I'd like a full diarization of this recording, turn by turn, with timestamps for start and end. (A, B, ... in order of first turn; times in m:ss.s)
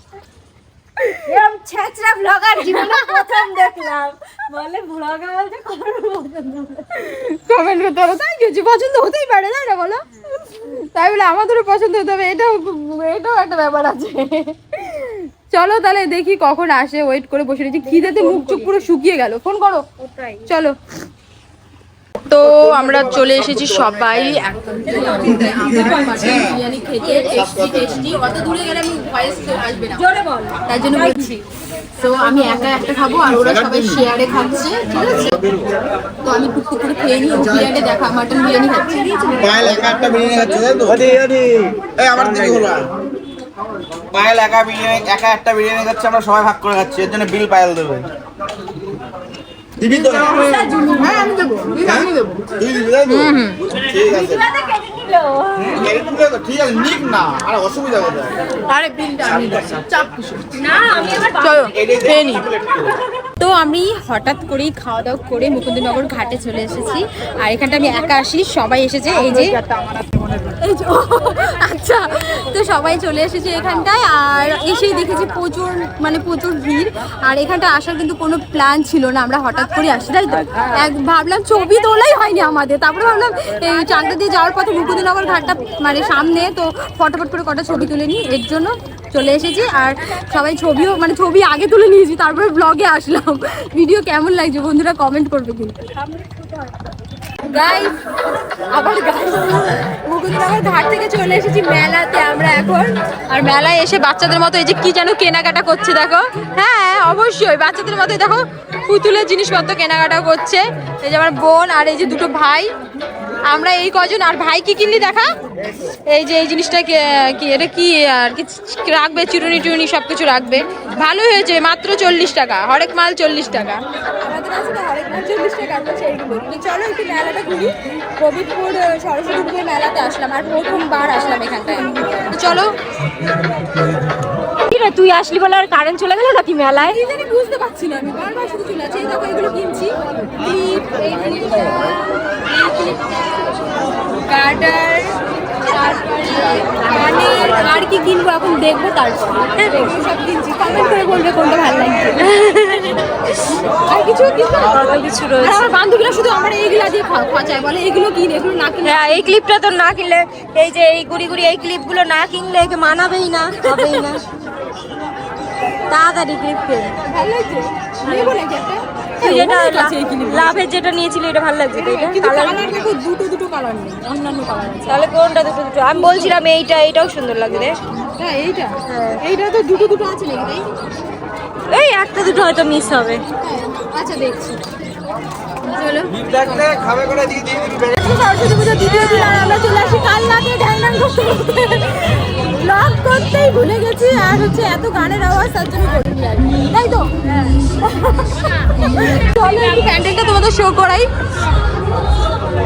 0:01.0-0:01.3 A
0:01.2-0:06.8 B
0:02.6-0:03.4 A
0:06.9-0:19.8 A
0:17.8-0:18.8 B
0:20.0-0:20.5 B
0:20.5-0:20.8 A
0:22.2-0:30.0 A
0:24.9-0:25.5 B
0:26.0-0:26.3 B
0:27.0-0:27.4 B
0:27.3-0:28.0 C
0:29.9-0:31.4 B
0:30.7-0:31.3 A
0:32.0-0:35.4 A
0:33.3-0:34.0 C
0:35.1-0:35.7 C
0:36.2-0:39.1 A
0:38.7-0:40.6 B
0:39.4-0:42.9 C
0:44.1-0:48.1 C
0:49.8-0:50.6 C
0:49.8-0:52.4 A
0:50.4-0:51.0 B
0:51.8-0:54.4 C
0:53.0-0:53.6 A
0:54.1-0:55.8 B
0:55.7-0:58.5 C
0:58.7-0:59.7 A
0:59.2-1:00.4 C
1:00.5-1:01.7 B
1:01.4-1:02.5 A
1:01.7-1:03.0 C
1:03.4-1:09.6 A
1:10.6-1:35.9 A
1:36.0-1:36.7 B
1:37.4-1:38.0 A
1:38.7-1:52.7 A
1:53.5-2:12.7 A
2:14.6-2:17.0 B
2:16.9-2:23.1 A
2:24.2-2:32.3 A
2:27.0-2:27.3 B
2:29.6-2:29.9 B
2:32.2-2:33.0 B
2:33.8-2:39.3 A
2:34.6-2:35.7 B
2:38.8-2:44.2 B
2:43.6-2:43.9 A
2:45.9-2:46.9 B
2:47.1-2:50.6 A
2:48.0-2:48.4 B
2:49.2-2:52.7 B
2:51.7-2:55.0 A
2:54.9-2:57.8 B
2:55.9-2:56.4 A
2:58.1-3:00.7 A
2:58.9-2:59.2 B
3:01.7-3:03.2 B
3:03.3-3:04.6 A
3:05.7-3:06.8 A
3:06.3-3:08.0 C
3:07.9-3:17.1 A
3:08.8-3:09.8 B
3:17.3-3:17.6 B
3:18.0-3:21.1 A